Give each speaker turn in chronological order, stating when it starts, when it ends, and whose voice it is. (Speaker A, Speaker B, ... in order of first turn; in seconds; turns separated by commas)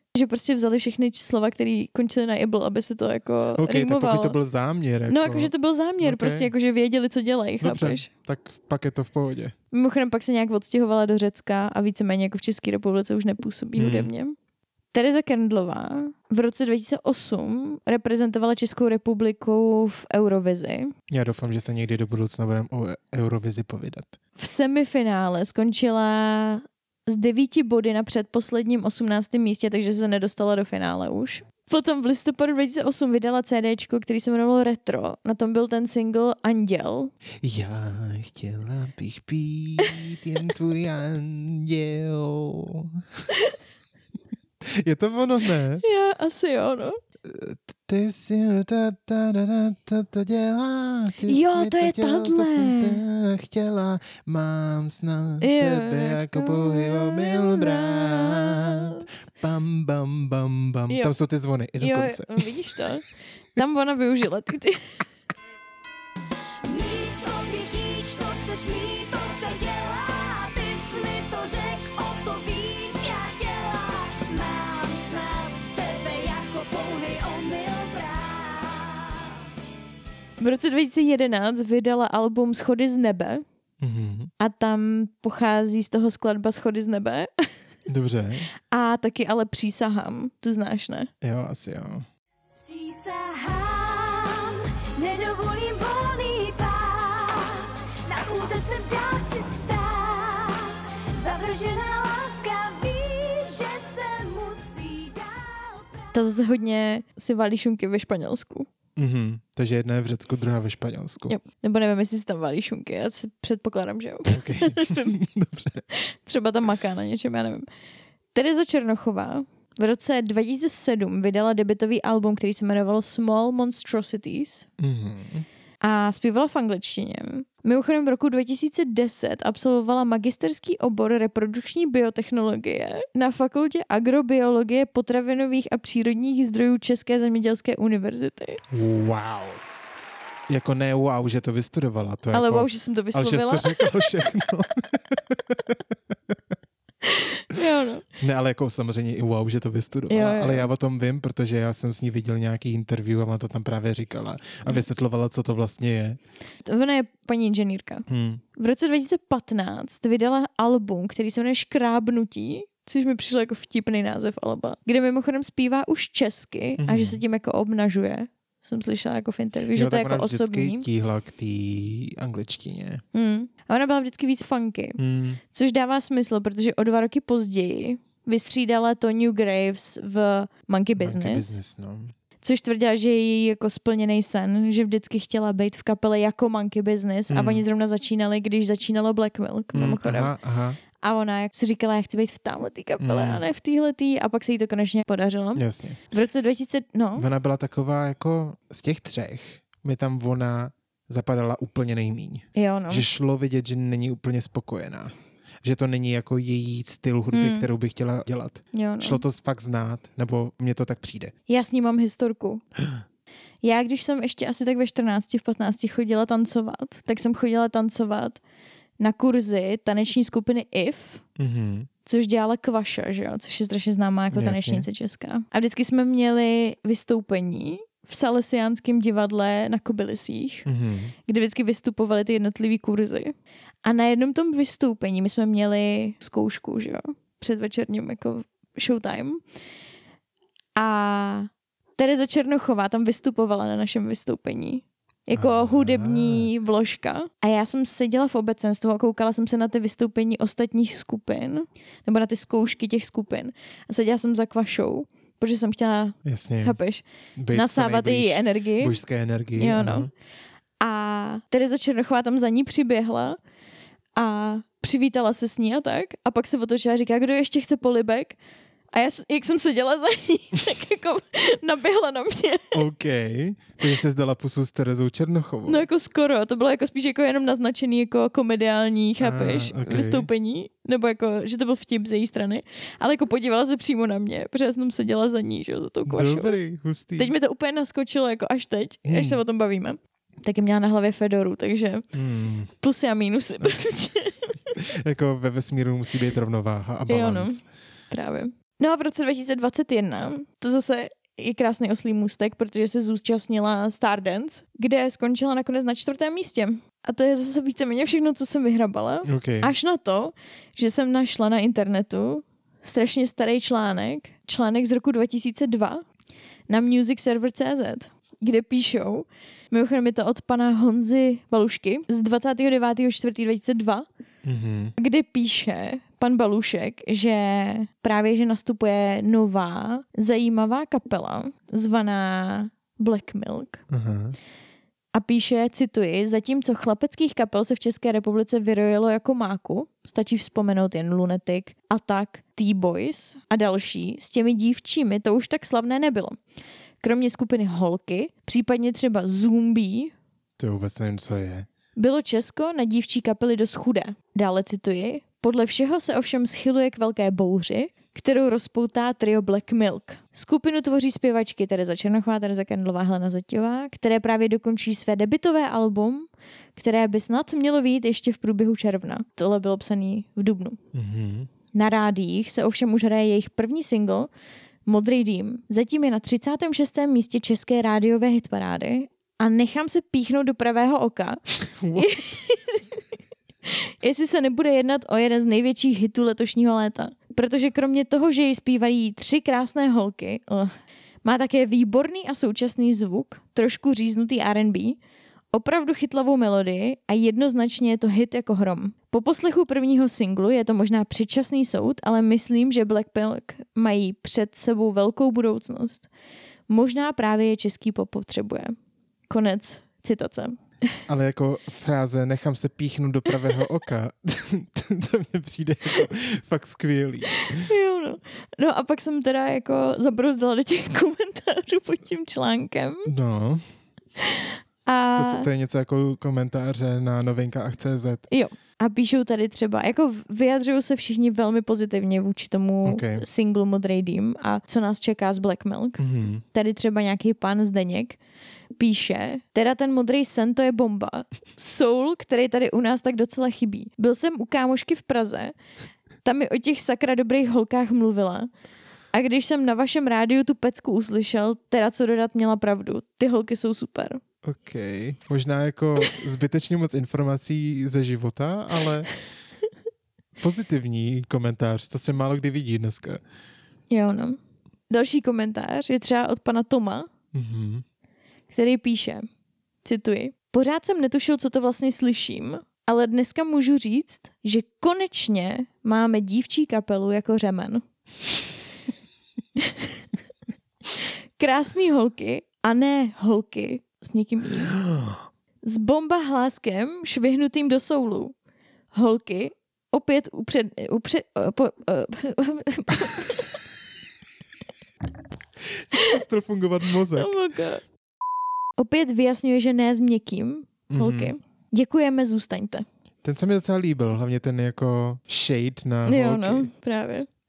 Speaker A: 0.1-4.4, Speaker B: 3.5-6.5, Speaker A: 5.1-8.1, Speaker B: 7.6-9.6, Speaker A: 9.7-14.4, Speaker B: 13.8-14.1, Speaker A: 14.9-20.9, Speaker B: 21.1-24.2, Speaker A: 24.4-37.1, Speaker B: 37.4-43.0, Speaker B: 44.6-45.8, Speaker A: 45.8-47.0, Speaker B: 47.2-62.5, Speaker A: 51.3-53.0, Speaker A: 55.4-59.1, Speaker A: 61.8-65.0, Speaker C: 66.6-79.4, Speaker A: 80.4-83.4, Speaker B: 83.8-84.3, Speaker A: 84.4-87.5, Speaker B: 87.9-88.5, Speaker A: 88.7-91.1, Speaker B: 91.2-92.1, Speaker C: 92.6-106.1, Speaker A: 106.1-108.7, Speaker B: 109.0-111.3, Speaker A: 111.3-115.2, Speaker B: 114.3-115.8, Speaker A: 115.9-117.7, Speaker A: 118.3-124.7, Speaker B: 124.8-125.5, Speaker A: 125.8-138.6, Speaker B: 138.7-139.6, Speaker B: 140.5-146.4, Speaker A: 142.3-144.1, Speaker A: 147.1-148.1, Speaker B: 148.2-156.2, Speaker A: 150.1-150.7, Speaker A: 156.7-170.8, Speaker B: 158.1-158.4, Speaker B: 166.8-167.2, Speaker B: 169.7-173.0, Speaker A: 173.1-175.0, Speaker B: 175.0-175.4, Speaker A: 175.5-181.6, Speaker B: 181.0-182.2, Speaker A: 182.4-190.3, Speaker B: 187.3-187.7, Speaker B: 189.7-190.8, Speaker A: 191.0-197.3, Speaker B: 193.0-193.5, Speaker B: 195.6-196.0, Speaker B: 197.2-211.3, Speaker A: 202.6-203.1, Speaker A: 207.3-207.7, Speaker A: 208.7-209.2, Speaker A: 211.5-212.6, Speaker A: 213.6-218.4, Speaker A: 219.0-221.2, Speaker B: 221.4-221.9, Speaker A: 222.1-230.7, Speaker B: 224.3-224.9, Speaker B: 230.7-231.2, Speaker A: 231.3-233.3, Speaker A: 233.8-239.4, Speaker A: 240.8-259.0, Speaker B: 245.3-246.5, Speaker B: 256.2-256.8, Speaker B: 257.4-260.1, Speaker A: 259.6-260.1, Speaker A: 260.8-263.4, Speaker A: 264.2-268.4, Speaker A: 268.9-272.8, Speaker B: 272.7-275.9, Speaker A: 275.7-286.6, Speaker B: 279.2-280.3, Speaker B: 286.1-287.3, Speaker A: 287.2-292.1, Speaker B: 289.1-289.4, Speaker B: 292.1-292.7, Speaker A: 292.8-294.5, Speaker B: 294.8-297.7, Speaker A: 297.1-316.0, Speaker B: 309.2-309.7, Speaker A: 316.7-324.1, Speaker B: 324.4-324.9, Speaker A: 325.0-333.8, Speaker B: 333.9-334.4, Speaker A: 335.1-346.4, Speaker A: 347.0-350.1, Speaker B: 350.6-351.7, Speaker A: 352.0-370.8, Speaker B: 370.9-371.5, Speaker A: 371.7-374.3, Speaker A: 374.9-382.9, Speaker B: 381.6-382.1, Speaker A: 383.7-390.7, Speaker A: 391.2-395.0, Speaker A: 395.5-406.1, Speaker A: 406.7-408.8, Speaker A: 409.3-410.6, Speaker B: 411.1-417.7, Speaker A: 417.3-423.1, Speaker B: 423.1-423.6, Speaker A: 424.3-425.5, Speaker B: 425.2-428.3, Speaker A: 428.3-436.0, Speaker B: 432.9-433.2, Speaker B: 436.0-436.4, Speaker A: 436.5-438.2, Speaker A: 438.8-445.5, Speaker A: 446.2-448.5, Speaker A: 449.1-454.2, Speaker B: 454.4-459.1, Speaker B: 460.4-463.2, Speaker A: 463.9-467.1, Speaker B: 467.3-467.8, Speaker A: 468.5-469.3, Speaker A: 469.8-477.8, Speaker A: 479.6-479.9, Speaker A: 481.4-484.8, Speaker B: 484.7-485.2, Speaker A: 485.6-488.4, Speaker A: 488.9-493.6, Speaker B: 495.6-497.4, Speaker A: 497.2-497.8, Speaker A: 498.8-502.9, Speaker B: 500.9-501.4, Speaker B: 503.2-506.7, Speaker A: 506.1-507.3